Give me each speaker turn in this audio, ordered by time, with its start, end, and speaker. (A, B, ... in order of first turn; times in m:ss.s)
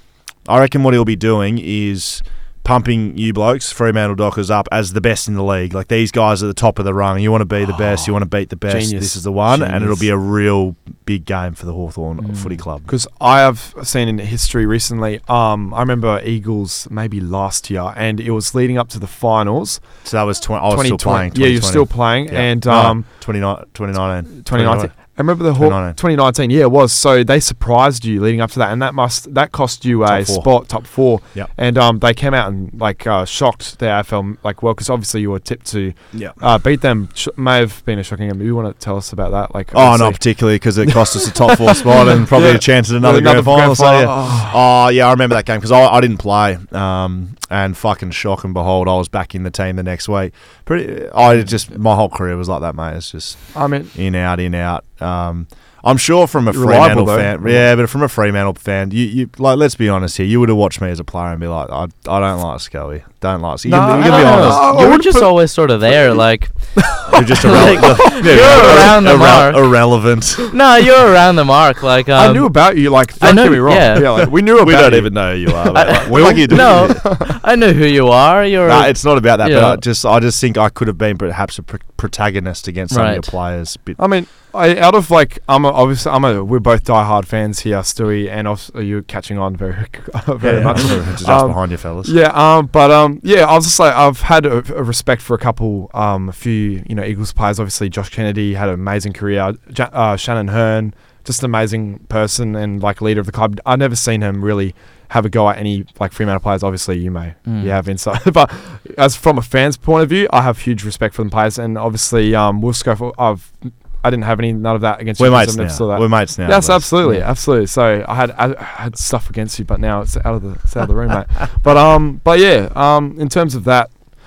0:00.5-0:12.9 A
0:08.7-0:10.1 B
0:12.2-0:12.5 C
0:12.9-0:19.8 B
0:20.0-0:26.0 A
0:20.7-0:23.0 B
0:24.4-0:40.2 B
0:30.1-0:30.5 A
0:39.7-1:04.7 A
0:40.8-0:44.6 B
0:53.5-0:53.9 B
0:56.5-0:57.6 B
1:03.6-1:05.3 B
1:03.8-1:09.9 C
1:06.8-1:08.9 B
1:07.1-1:10.6 A
1:10.5-1:14.4 C
1:12.2-1:17.2 B
1:14.4-1:17.2 A
1:15.7-1:19.8 C
1:18.6-1:24.0 A
1:22.9-1:23.3 C
1:24.0-2:03.9 B
1:30.4-1:32.1 A
1:47.4-1:47.7 C
1:55.2-1:56.9 A